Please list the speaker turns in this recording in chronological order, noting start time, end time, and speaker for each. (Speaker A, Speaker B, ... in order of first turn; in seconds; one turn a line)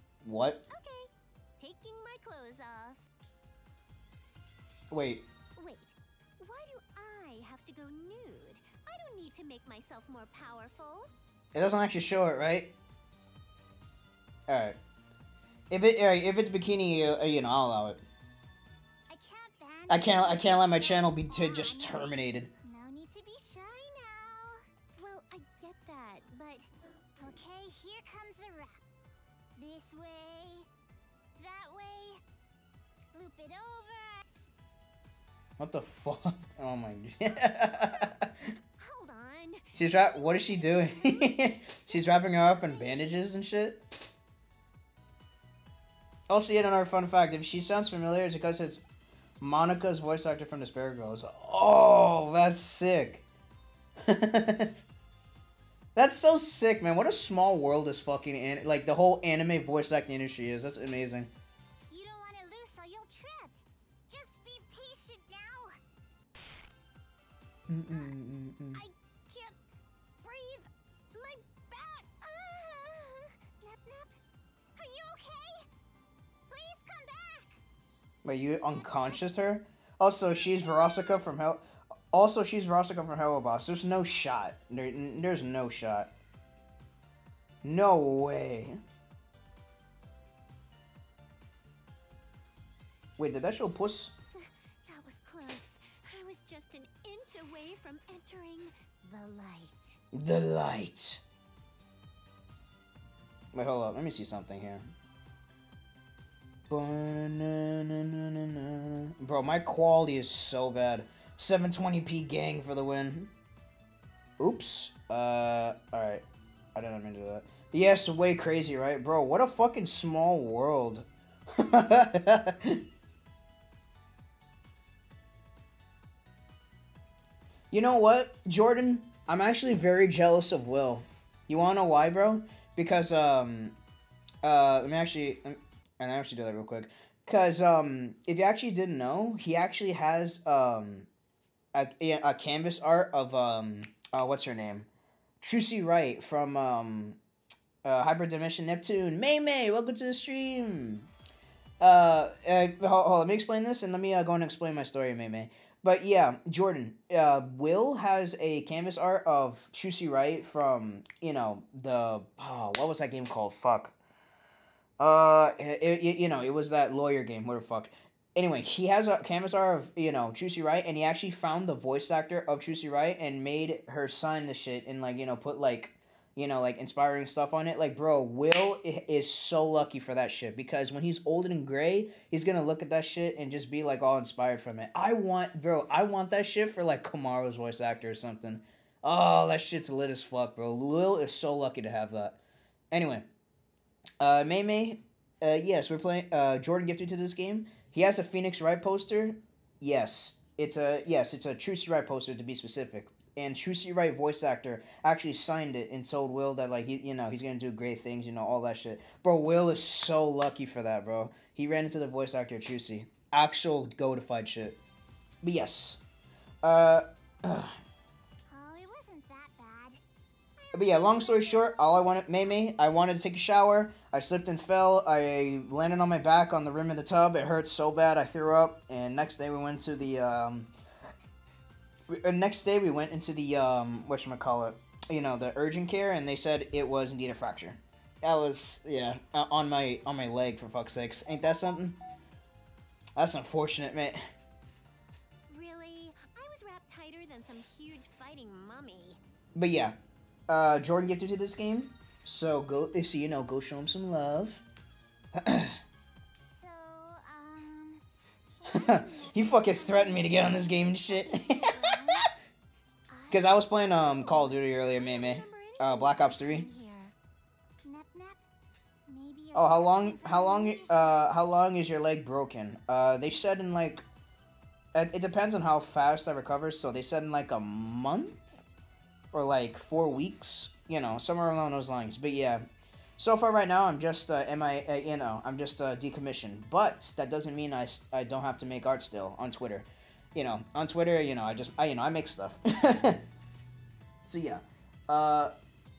Speaker A: 0.2-0.6
Speaker B: 0.7-3.1
Speaker A: 4.9-5.3
Speaker B: 5.6-11.1
Speaker A: 11.6-12.7
Speaker A: 14.5-14.8
Speaker A: 15.7-18.0
Speaker C: 19.1-24.6
Speaker A: 19.9-22.5
Speaker B: 25.0-26.7
Speaker C: 27.2-28.8
Speaker C: 29.6-30.7
Speaker C: 31.4-32.2
Speaker C: 33.1-34.2
Speaker A: 35.6-38.3
Speaker B: 38.8-43.0
Speaker A: 39.8-43.8
Speaker A: 46.3-48.9
Speaker A: 49.4-53.2
Speaker A: 54.0-54.8
Speaker A: 56.0-61.3
Speaker C: 61.9-63.6
Speaker C: 64.1-65.8
Speaker A: 67.7-68.8
Speaker B: 68.8-69.6
Speaker B: 70.2-73.3
Speaker C: 73.6-74.1
Speaker C: 74.8-75.5
Speaker B: 75.0-75.4
Speaker C: 76.5-77.5
Speaker A: 78.2-86.1
Speaker C: 78.8-79.2
Speaker A: 87.6-88.8
Speaker A: 93.2-94.1
Speaker B: 94.3-100.0
Speaker A: 100.1-101.2
Speaker A: 103.5-104.9
Speaker A: 106.7-113.3
Speaker A: 114.4-116.2
Speaker A: 116.8-122.8
Speaker A: 127.7-133.8
Speaker A: 134.4-141.1
Speaker A: 141.7-144.9
Speaker A: 145.4-147.2
Speaker A: 147.8-151.1
Speaker A: 151.8-163.9
Speaker A: 165.0-192.4
Speaker A: 192.9-193.3
Speaker A: 194.2-214.8
Speaker A: 215.4-216.0
Speaker A: 216.6-217.8
Speaker C: 218.5-220.0
Speaker C: 220.6-222.3
Speaker A: 220.7-230.7
Speaker A: 232.1-242.0
Speaker A: 243.2-244.2
Speaker B: 245.5-249.2
Speaker A: 249.6-250.0
Speaker A: 250.5-254.6
Speaker A: 255.3-255.8
Speaker C: 256.4-258.0
Speaker C: 258.6-262.3
Speaker A: 258.7-262.3
Speaker C: 263.1-263.4
Speaker B: 263.3-267.1
Speaker A: 263.3-266.7
Speaker C: 267.8-268.4
Speaker C: 269.1-271.3
Speaker A: 269.5-274.1
Speaker A: 274.9-278.5
Speaker A: 279.3-282.7
Speaker A: 283.2-293.2
Speaker A: 294.2-295.5